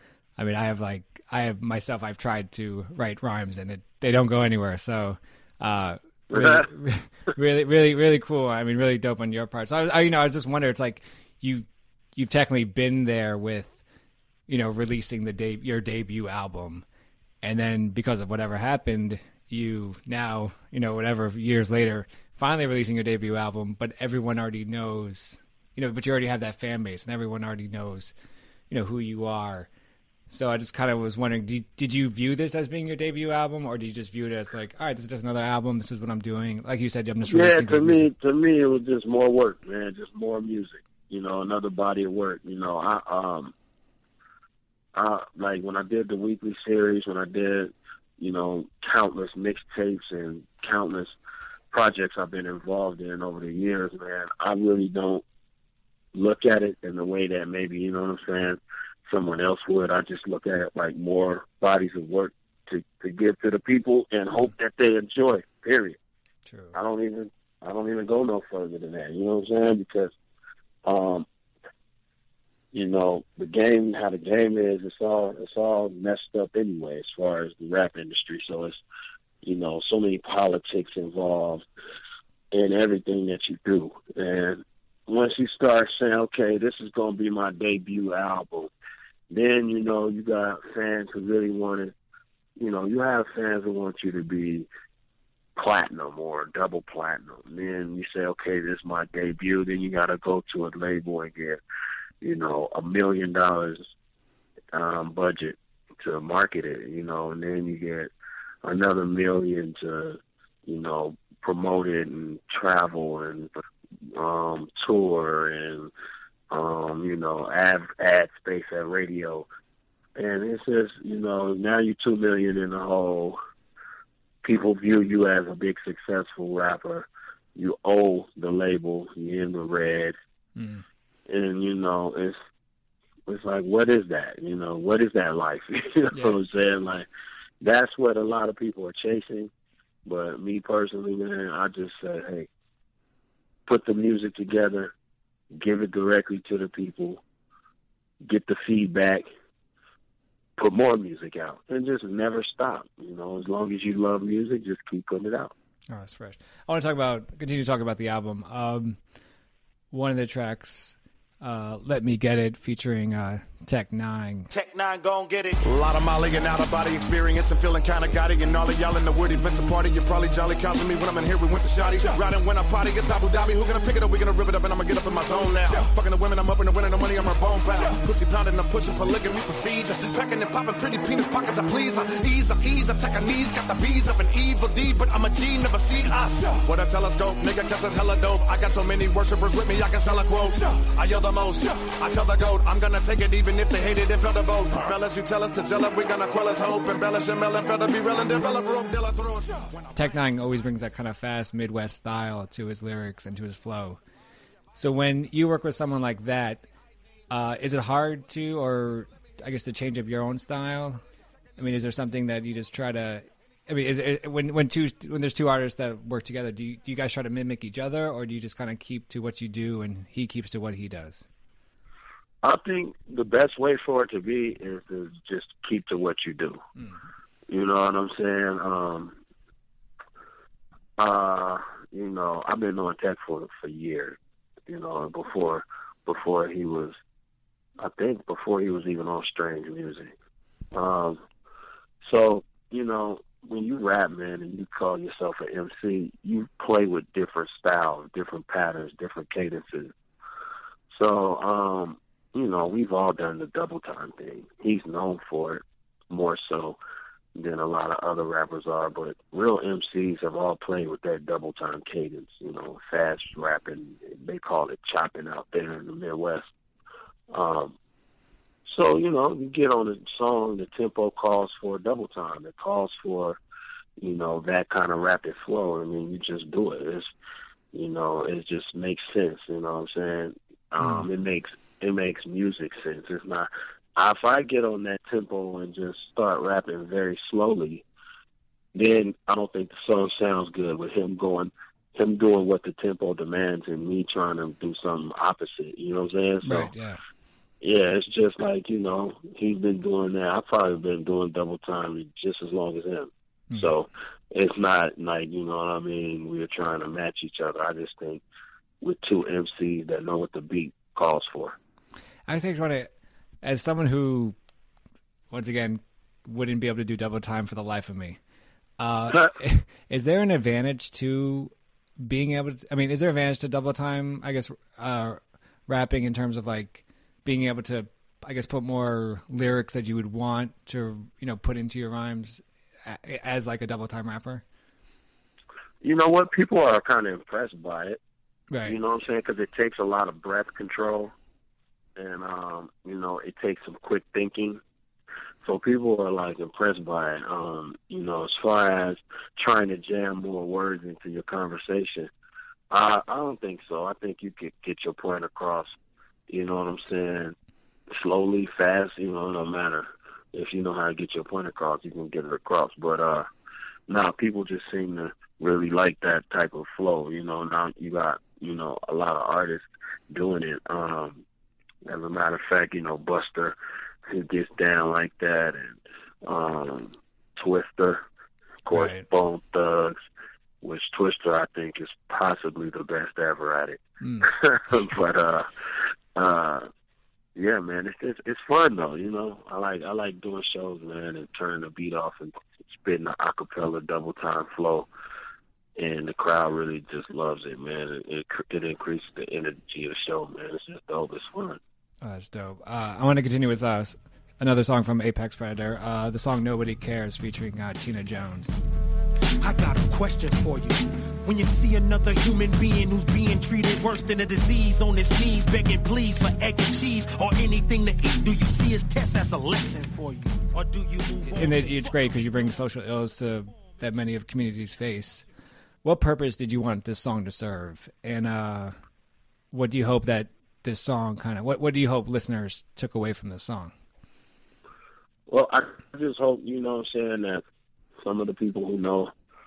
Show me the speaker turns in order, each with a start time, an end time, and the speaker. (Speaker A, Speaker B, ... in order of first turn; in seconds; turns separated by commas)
Speaker A: 0.4-13.8, Speaker B: 6.3-6.7, Speaker A: 14.5-16.8, Speaker A: 17.4-28.1, Speaker A: 28.7-29.7, Speaker A: 30.3-38.1, Speaker B: 37.3-43.5, Speaker B: 44.9-51.1, Speaker B: 51.7-55.2, Speaker B: 56.1-66.0, Speaker A: 66.5-66.8, Speaker B: 66.7-70.1, Speaker B: 70.8-71.2, Speaker B: 72.7-78.8, Speaker B: 79.4-81.6, Speaker B: 82.5-88.7, Speaker B: 89.3-91.9, Speaker B: 92.6-94.7, Speaker B: 95.5-101.6, Speaker B: 102.2-103.9, Speaker B: 104.7-108.1, Speaker B: 108.6-113.5, Speaker B: 114.1-115.9, Speaker B: 116.5-119.5, Speaker B: 120.2-123.4, Speaker B: 124.4-130.2, Speaker A: 130.6-130.8, Speaker B: 131.3-132.3, Speaker B: 133.3-137.1, Speaker A: 136.1-136.4, Speaker B: 137.6-139.5, Speaker B: 140.0-142.5, Speaker B: 143.7-144.9, Speaker B: 145.5-147.2, Speaker B: 148.2-149.2, Speaker B: 150.6-155.5, Speaker A: 155.9-159.0, Speaker A: 159.9-164.5, Speaker C: 164.6-199.8, Speaker A: 199.9-204.0, Speaker A: 204.7-206.6, Speaker A: 207.3-211.0, Speaker A: 211.6-221.2, Speaker B: 222.4-226.6, Speaker B: 227.5-229.2, Speaker B: 231.0-237.0, Speaker B: 237.8-240.1, Speaker B: 240.7-241.2, Speaker B: 242.0-249.9, Speaker B: 250.9-256.8, Speaker B: 257.3-266.5, Speaker B: 267.3-267.7, Speaker B: 268.6-273.4, Speaker B: 274.0-277.1, Speaker B: 277.7-287.8, Speaker A: 280.8-281.1, Speaker B: 288.7-296.7, Speaker A: 296.4-297.0, Speaker B: 297.6-308.2, Speaker B: 308.8-311.6, Speaker A: 312.3-312.9, Speaker A: 313.4-314.3, Speaker A: 315.3-318.2, Speaker A: 318.8-334.4, Speaker B: 335.8-338.0, Speaker A: 338.5-338.8, Speaker B: 338.6-341.1, Speaker B: 342.0-344.6, Speaker B: 345.4-352.1, Speaker B: 352.7-355.7, Speaker B: 356.3-357.3, Speaker B: 357.9-363.3, Speaker B: 363.9-371.2, Speaker B: 371.8-373.5, Speaker B: 374.1-378.0, Speaker B: 378.6-379.9, Speaker A: 378.7-379.0, Speaker B: 380.6-385.5, Speaker A: 384.0-384.3, Speaker B: 386.1-386.7, Speaker B: 387.4-394.9, Speaker B: 395.8-401.6, Speaker A: 402.0-408.6, Speaker D: 409.4-422.6, Speaker A: 421.2-425.3, Speaker D: 423.5-423.8, Speaker A: 425.8-428.7, Speaker A: 429.5-433.7, Speaker B: 435.3-437.4, Speaker B: 438.0-439.1